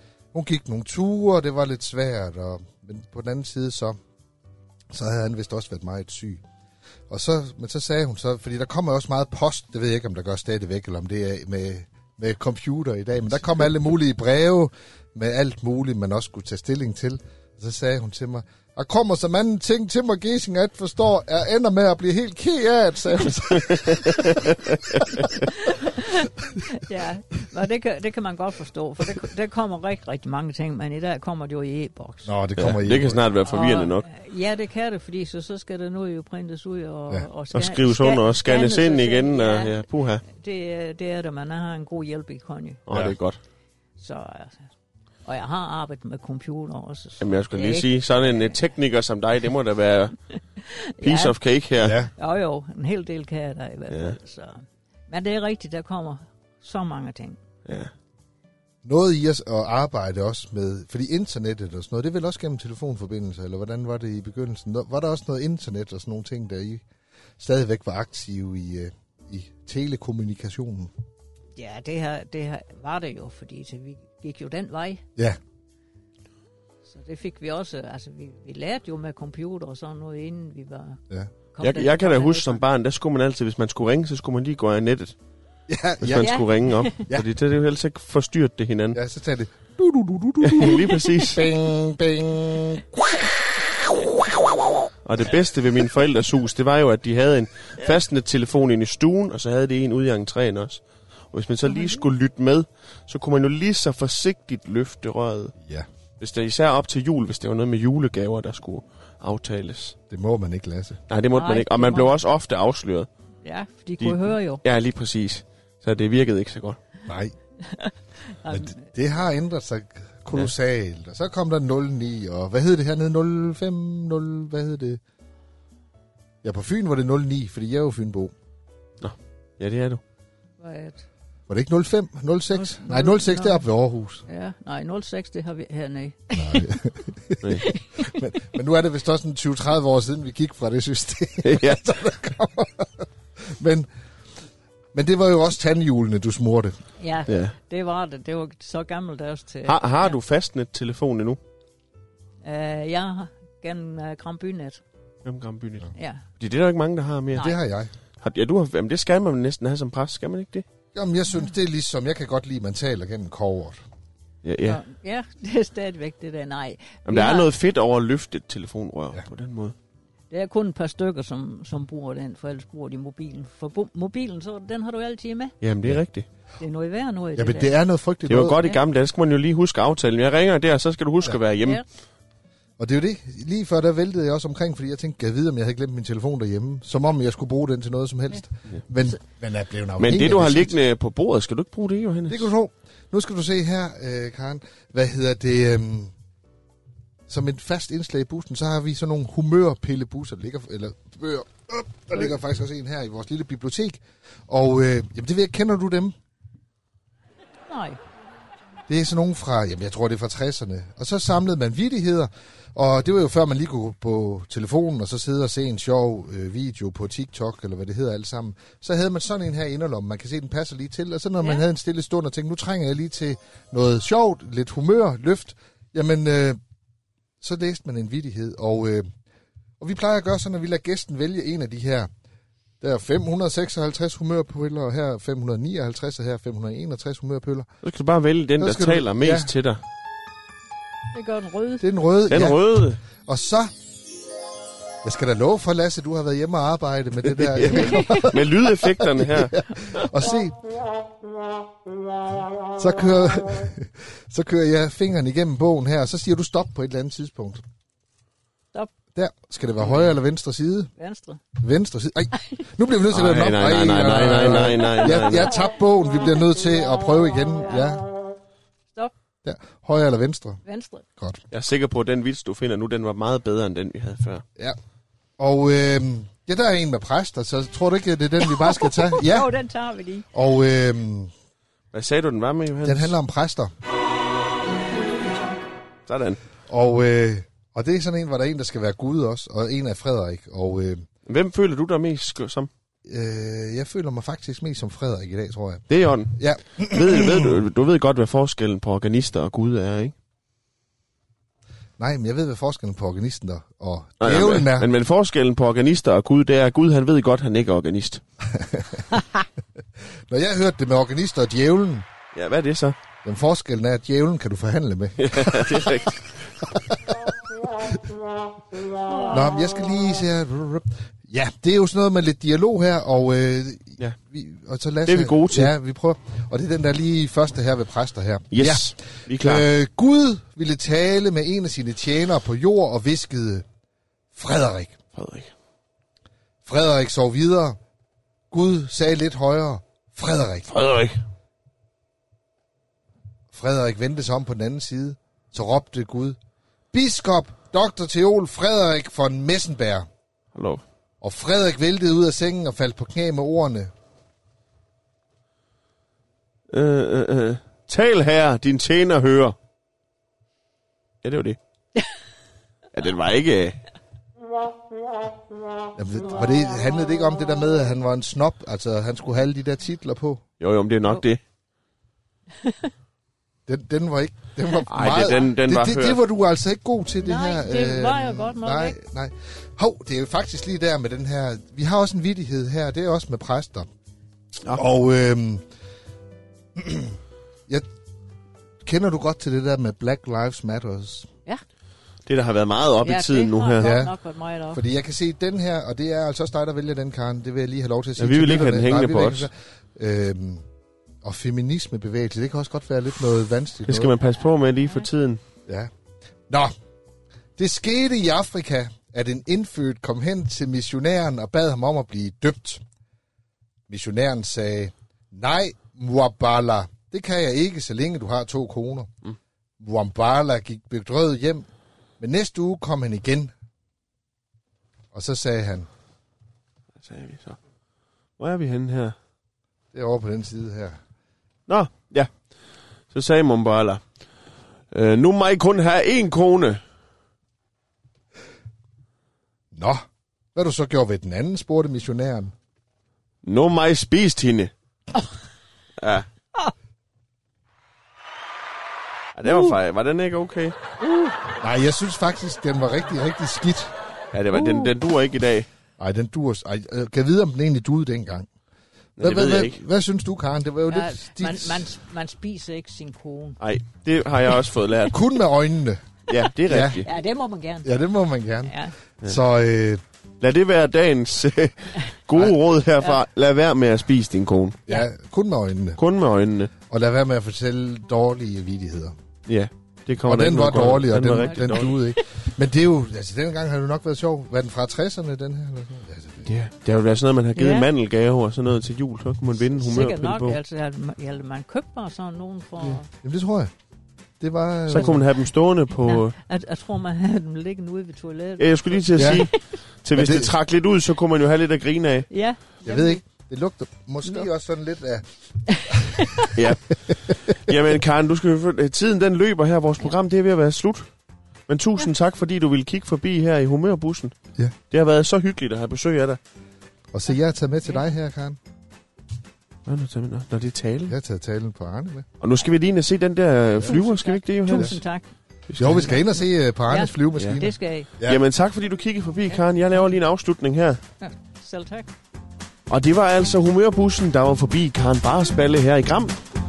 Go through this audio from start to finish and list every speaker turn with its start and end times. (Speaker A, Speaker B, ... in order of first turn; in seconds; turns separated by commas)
Speaker A: 0.3-4.0, Speaker A: 4.9-6.4, Speaker A: 7.1-24.5, Speaker B: 23.5-25.5, Speaker C: 25.6-32.3, Speaker A: 32.2-33.2, Speaker B: 32.6-34.1, Speaker C: 33.5-42.8, Speaker B: 37.5-40.2, Speaker B: 42.9-43.4, Speaker C: 44.0-44.7, Speaker C: 45.2-48.5, Speaker B: 47.2-50.1, Speaker C: 50.6-51.4, Speaker B: 51.0-52.0, Speaker A: 51.8-52.1, Speaker C: 52.1-57.4, Speaker B: 53.9-54.2, Speaker B: 57.6-57.9, Speaker A: 58.8-66.8, Speaker A: 67.4-70.9, Speaker C: 71.5-75.0, Speaker C: 76.9-81.0, Speaker C: 81.5-82.6, Speaker B: 81.6-85.2, Speaker A: 85.7-86.3, Speaker B: 86.0-89.0, Speaker C: 86.2-87.0, Speaker A: 88.9-94.9, Speaker B: 90.4-91.5, Speaker B: 95.0-105.5, Speaker C: 101.7-102.0, Speaker A: 105.6-105.9, Speaker B: 106.2-110.0, Speaker A: 110.1-111.0, Speaker B: 111.1-113.1, Speaker C: 111.3-112.1, Speaker C: 113.4-114.6, Speaker B: 114.0-116.8, Speaker A: 117.0-117.3, Speaker C: 117.6-118.9, Speaker A: 118.5-125.0, Speaker A: 126.4-128.3, Speaker B: 129.0-130.0, Speaker C: 130.6-131.1, Speaker A: 131.5-134.2, Speaker C: 132.5-133.7, Speaker C: 134.3-136.8, Speaker A: 136.3-143.9, Speaker C: 137.6-138.3, Speaker B: 141.4-141.9, Speaker A: 144.9-146.8, Speaker C: 147.0-150.1, Speaker B: 147.3-147.5, Speaker B: 149.7-151.4, Speaker C: 152.4-154.8, Speaker B: 155.2-157.5, Speaker C: 155.9-156.2, Speaker A: 157.3-157.9, Speaker B: 158.2-160.6, Speaker A: 160.9-163.8, Speaker B: 164.4-164.8, Speaker C: 164.6-167.5, Speaker B: 167.1-169.7, Speaker C: 170.3-175.6, Speaker B: 175.6-176.3, Speaker C: 176.6-177.8, Speaker A: 177.3-178.6, Speaker B: 178.3-181.8, Speaker A: 182.8-190.7, Speaker B: 190.0-192.5, Speaker A: 192.3-196.1, Speaker A: 197.3-206.1, Speaker C: 207.7-208.0, Speaker A: 208.9-226.6, Speaker A: 227.4-229.1, Speaker A: 229.8-232.1, Speaker A: 232.8-237.7, Speaker B: 237.8-239.8, Speaker A: 238.6-239.5, Speaker C: 241.1-241.9, Speaker A: 241.8-242.6, Speaker B: 242.3-243.0, Speaker A: 243.2-243.7, Speaker A: 245.0-250.6, Speaker B: 247.2-250.1, Speaker C: 247.7-248.3, Speaker A: 252.8-257.6, Speaker A: 259.1-260.9, Speaker C: 261.0-261.4, Speaker A: 261.6-268.0, Speaker C: 262.4-262.6, Speaker B: 263.1-265.5, Speaker C: 264.9-265.4, Speaker A: 269.4-270.6, Speaker C: 270.6-271.0, Speaker B: 271.5-274.4, Speaker A: 275.4-279.5, Speaker C: 278.4-280.3, Speaker A: 280.3-281.3, Speaker B: 281.9-283.1, Speaker A: 282.8-283.7, Speaker B: 286.1-286.4, Speaker A: 286.7-291.0, Speaker B: 291.2-292.7, Speaker A: 293.0-295.8, Speaker B: 295.9-300.1, Speaker A: 296.4-297.6, Speaker A: 302.0-304.9, Speaker B: 304.2-308.2, Speaker A: 308.5-309.2, Speaker A: 310.3-312.1, Speaker B: 312.3-312.9, Speaker A: 313.2-316.1, Speaker B: 315.2-316.5, Speaker A: 316.6-318.1, Speaker C: 319.1-319.4, Speaker A: 319.3-333.6, Speaker B: 325.0-325.7, Speaker B: 328.5-329.7, Speaker A: 334.3-335.0, Speaker B: 335.1-335.5, Speaker A: 336.6-337.8, Speaker A: 338.5-340.7, Speaker B: 340.7-341.2, Speaker A: 343.5-346.4, Speaker A: 346.9-350.1, Speaker B: 350.5-350.8, Speaker A: 351.2-353.9, Speaker B: 356.7-359.6, Speaker B: 361.2-361.6, Speaker B: 362.9-363.8, Speaker A: 365.9-370.4, Speaker B: 370.6-371.4, Speaker C: 372.6-372.9, Speaker A: 373.7-383.9, Speaker B: 374.9-376.2, Speaker C: 377.2-378.9, Speaker A: 384.7-385.6, Speaker A: 386.8-387.2, Speaker A: 388.8-391.3, Speaker B: 392.2-393.9, Speaker C: 393.0-394.8, Speaker A: 393.8-394.1, Speaker A: 394.7-400.6, Speaker B: 398.2-399.5, Speaker A: 401.2-404.1, Speaker B: 403.8-405.4, Speaker A: 407.6-412.8, Speaker A: 413.9-419.1, Speaker A: 419.8-421.7, Speaker A: 422.2-423.5, Speaker A: 425.1-425.9, Speaker B: 427.0-427.6, Speaker B: 428.4-429.1, Speaker A: 429.9-431.0, Speaker B: 431.7-432.3, Speaker B: 433.1-434.0, Speaker B: 434.9-436.8, Speaker A: 439.7-442.5, Speaker B: 443.4-444.7, Speaker B: 446.0-446.3, Speaker B: 449.4-450.8, Speaker C: 449.4-449.7, Speaker A: 451.6-453.9, Speaker B: 454.3-455.7, Speaker C: 454.5-454.9, Speaker A: 456.0-458.5, Speaker B: 459.2-459.8, Speaker A: 459.2-461.9, Speaker C: 460.9-463.6, Speaker B: 463.6-465.2, Speaker A: 465.1-466.1, Speaker B: 466.3-467.1, Speaker A: 466.6-467.0, Speaker C: 467.0-467.9, Speaker A: 467.8-470.0, Speaker C: 468.6-468.9, Speaker B: 470.4-474.8, Speaker A: 474.9-476.0, Speaker B: 476.0-476.7, Speaker A: 476.8-479.1, Speaker B: 479.5-482.0, Speaker A: 480.2-486.5, Speaker C: 481.4-482.1, Speaker B: 486.4-490.6, Speaker C: 487.6-487.9, Speaker C: 489.6-493.1, Speaker A: 492.8-493.7, Speaker A: 494.4-495.2, Speaker B: 494.9-496.3, Speaker C: 496.0-499.6, Speaker B: 498.6-502.3, Speaker A: 499.2-499.5, Speaker A: 500.1-500.5, Speaker C: 502.3-503.2, Speaker A: 502.8-505.2, Speaker C: 505.7-506.5, Speaker A: 505.9-506.5, Speaker B: 506.5-511.1, Speaker B: 511.7-514.3, Speaker B: 514.9-516.4, Speaker A: 517.1-518.6, Speaker B: 519.9-521.1, Speaker A: 521.1-522.3, Speaker B: 522.4-525.0, Speaker C: 523.8-525.3, Speaker A: 524.7-525.0, Speaker B: 525.7-526.1, Speaker A: 525.8-528.4, Speaker C: 525.8-528.1, Speaker B: 528.2-531.0, Speaker C: 531.2-532.1, Speaker B: 532.9-536.4